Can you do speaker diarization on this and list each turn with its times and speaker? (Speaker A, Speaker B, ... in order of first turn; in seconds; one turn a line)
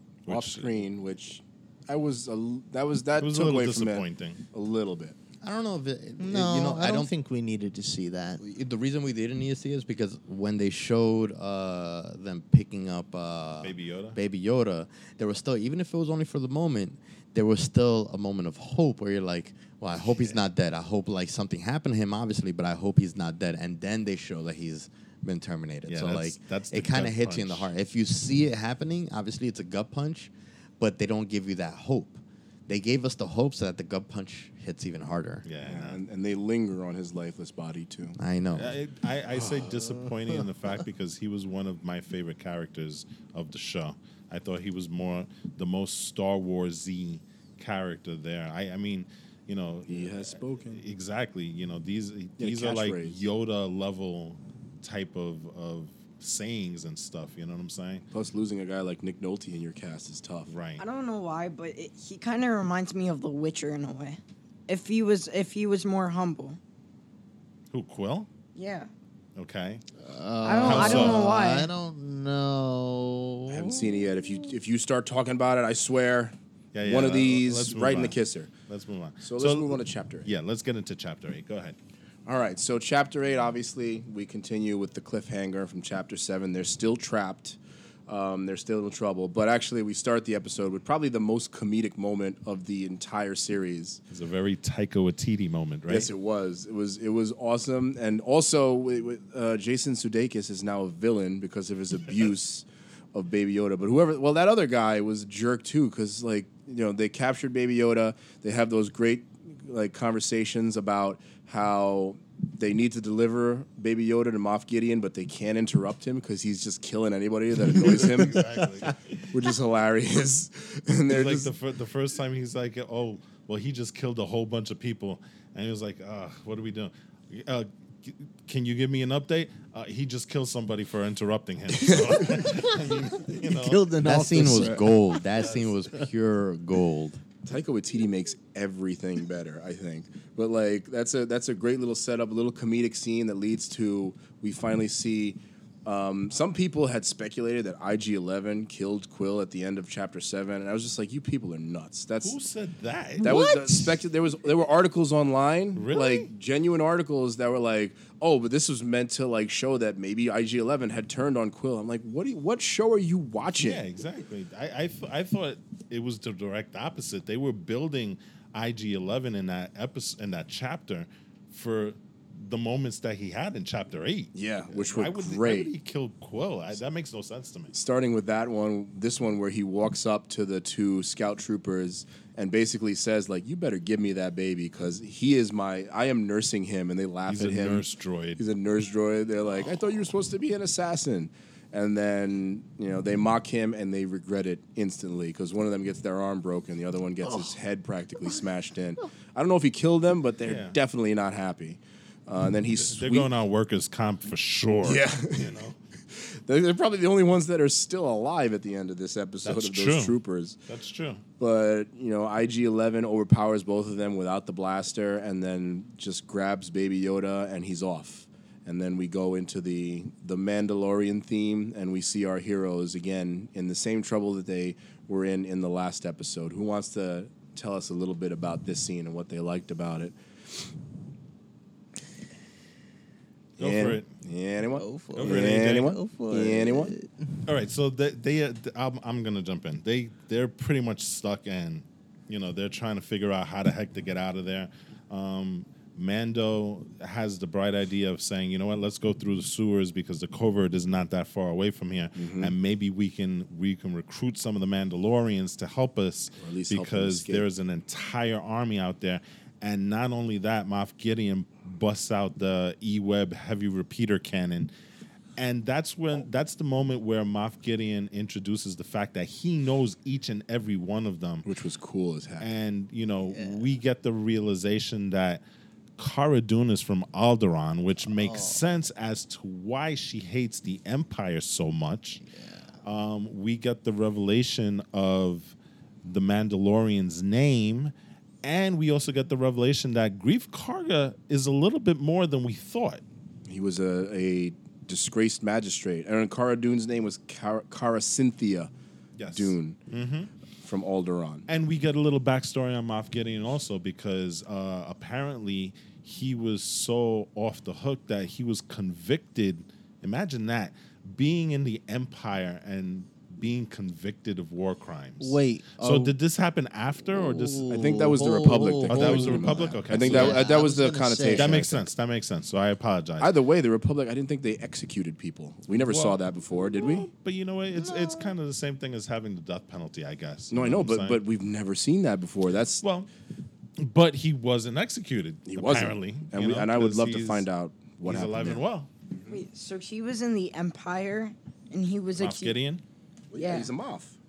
Speaker A: 0.3-0.7
Speaker B: 0.3-5.2
Speaker A: 3.2-4.4
Speaker C: 5.4-7.1
Speaker D: 6.2-8.4
Speaker C: 8.4-35.5
Speaker A: 13.6-14.2
Speaker A: 25.9-27.7
Speaker A: 35.5-36.0
Speaker B: 35.6-38.2
Speaker C: 38.2-38.8
Speaker A: 38.5-58.1
Speaker B: 49.9-50.8
Speaker B: 52.4-53.2
Speaker B: 58.1-60.5
Speaker A: 60.5-60.8
Speaker E: 60.8-66.6
Speaker A: 67.7-68.3
Speaker E: 68.5-68.9
Speaker A: 69.4-69.8
Speaker D: 70.0-74.5
Speaker E: 70.4-71.7
Speaker A: 70.6-71.2
Speaker B: 73.5-78.5
Speaker A: 76.7-81.8
Speaker B: 79.2-80.3
Speaker B: 82.3-94.0
Speaker A: 94.1-96.1
Speaker B: 95.9-118.5
Speaker A: 117.8-119.0
Speaker D: 118.4-118.9
Speaker B: 119.3-121.5
Speaker A: 121.1-133.8
Speaker B: 131.8-132.4
Speaker D: 132.4-135.0
Speaker C: 134.0-137.2
Speaker A: 135.4-135.9
Speaker B: 137.4-152.4
Speaker A: 152.2-153.4
Speaker D: 153.2-154.0
Speaker B: 153.2-163.8
Speaker A: 155.8-156.3
Speaker A: 163.6-177.7
Speaker B: 174.3-175.7
Speaker B: 177.7-187.8
Speaker A: 187.3-188.4
Speaker B: 188.4-203.3
Speaker A: 200.4-200.8
Speaker A: 202.8-205.8
Speaker B: 204.8-205.5
Speaker B: 206.1-210.6
Speaker A: 209.4-210.2
Speaker A: 210.7-211.2
Speaker B: 211.4-230.2
Speaker A: 233.6-234.1
Speaker B: 233.6-236.9
Speaker D: 234.8-237.4
Speaker A: 235.2-236.0
Speaker A: 237.4-264.7
Speaker B: 252.2-252.5
Speaker B: 256.4-257.4
Speaker A: 265.4-271.5
Speaker B: 271.4-272.5
Speaker A: 272.4-275.4
Speaker A: 276.0-282.2
Speaker D: 278.1-278.6
Speaker D: 282.2-282.8
Speaker A: 282.8-293.0
Speaker B: 293.5-298.7
Speaker A: 299.2-300.3
Speaker B: 299.3-299.8
Speaker B: 300.6-301.5
Speaker A: 301.5-317.8
Speaker D: 315.2-316.1
Speaker C: 317.4-319.8
Speaker B: 317.7-321.9
Speaker D: 318.2-319.3
Speaker A: 318.9-320.4
Speaker D: 319.9-321.6
Speaker A: 321.4-323.3
Speaker B: 323.2-327.1
Speaker A: 325.8-331.2
Speaker D: 327.9-328.3
Speaker B: 330.5-332.8
Speaker A: 332.8-333.1
Speaker A: 333.8-337.5
Speaker B: 335.5-338.6
Speaker A: 338.1-338.9
Speaker E: 339.3-342.6
Speaker A: 342.2-342.8
Speaker B: 343.3-344.2
Speaker E: 343.3-343.7